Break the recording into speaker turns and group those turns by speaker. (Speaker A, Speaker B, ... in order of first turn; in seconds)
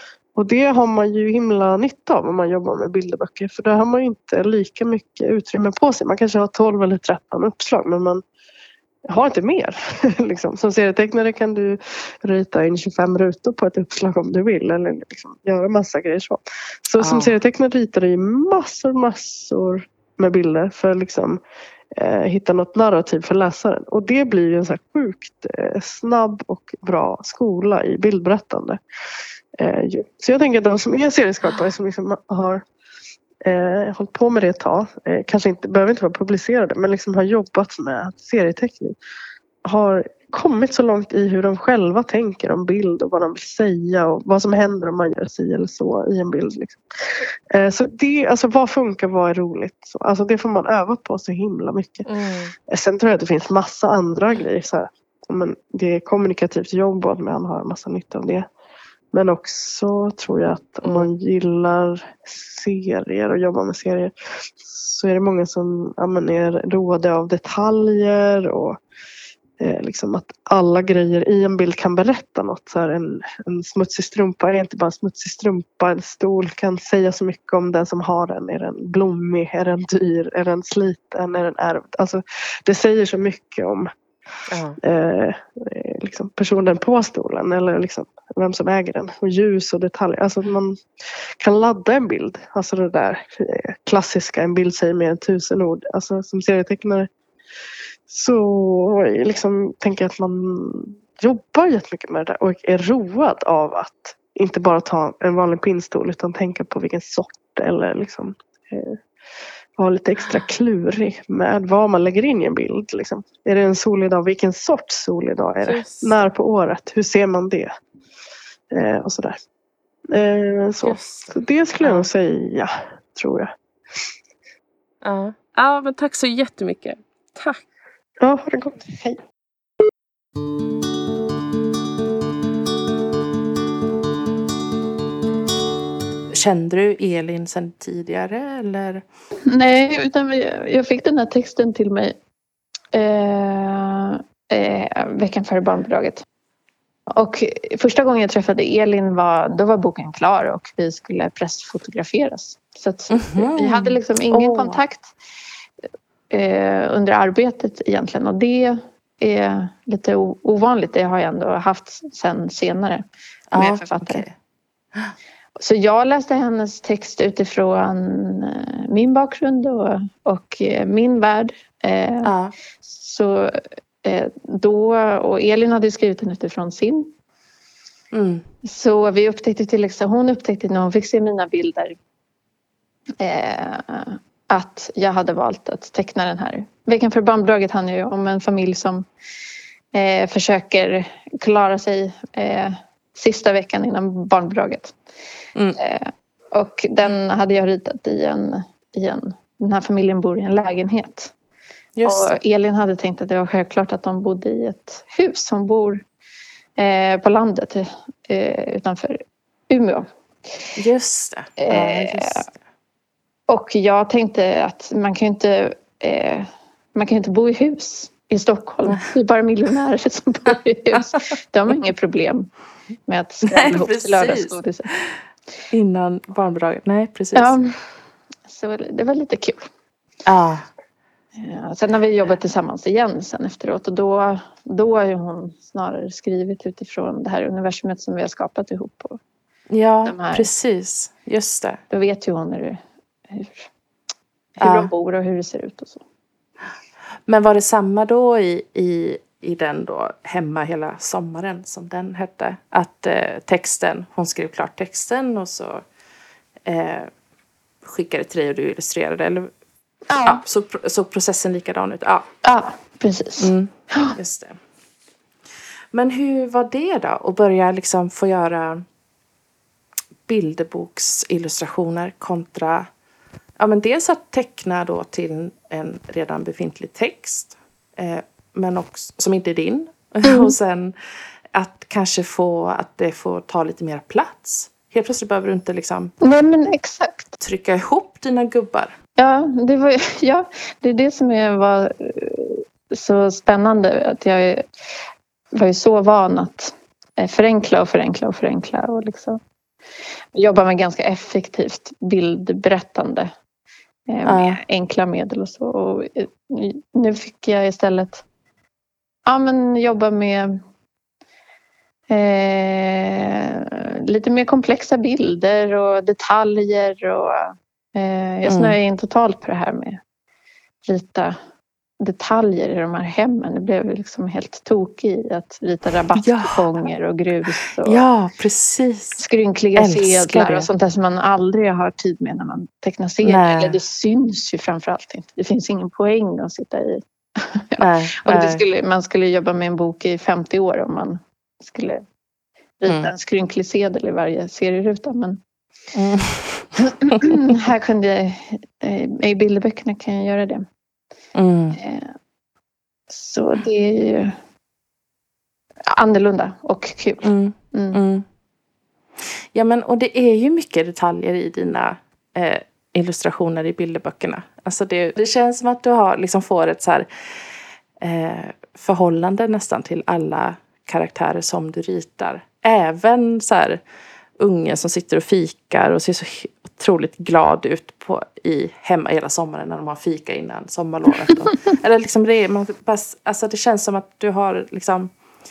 Speaker A: 0.3-8.2, 9.1-21.4, 22.0-28.8, 29.6-32.6, 33.4-39.0, 39.6-52.1, 52.7-58.5, 59.1-68.8, 69.6-83.9, 84.8-90.8, 91.4-97.1, 98.1-109.0, 109.8-117.7, 118.7-119.4, 120.1-123.5, 128.2-129.2
Speaker B: 17.0-17.4, 84.5-84.8, 115.6-116.3, 120.8-122.1, 125.0-127.6, 136.3-139.0, 153.1-154.8, 163.5-164.3, 172.2-172.5, 178.1-178.4, 202.0-202.3, 210.8-212.6, 223.4-224.6, 225.7-227.6, 230.2-230.7, 239.7-241.8, 244.6-244.9, 247.3-255.8, 256.6-257.1, 257.8-259.5, 260.3-262.3, 263.4-264.6, 265.9-268.8, 270.3-272.9, 273.6-280.9, 281.5-286.1, 287.4-288.9, 304.2-304.6, 318.5-318.8, 326.2-326.6, 327.8-329.2, 329.8-330.7, 333.2-333.8, 337.8-338.6, 342.9-343.1, 345.9-346.7, 351.4-351.8, 357.2-358.2, 359.5-367.1, 368.0-373.8, 374.4-385.1
Speaker C: 139.5-142.2, 142.9-146.2, 147.1-155.1, 156.3-164.3, 165.6-177.1, 178.6-182.0, 183.2-189.1, 189.9-194.9, 195.8-201.3, 202.1-206.0, 206.8-210.1, 211.6-212.5, 213.5-222.5, 223.1-224.9, 227.3-227.8, 228.5-229.7, 231.4-239.2, 240.1-240.5, 241.9-243.7, 244.6-246.0, 260.1-260.4, 262.4-264.2, 280.2-280.5, 286.2-287.3, 289.2-294.6, 295.6-299.4, 300.3-303.3, 304.1-308.2, 309.3-310.6, 312.1-320.0, 320.9-321.4, 322.0-328.0, 329.2-342.0, 342.8-345.4, 346.8-350.6, 351.7-352.1, 353.1-354.4, 355.9-358.0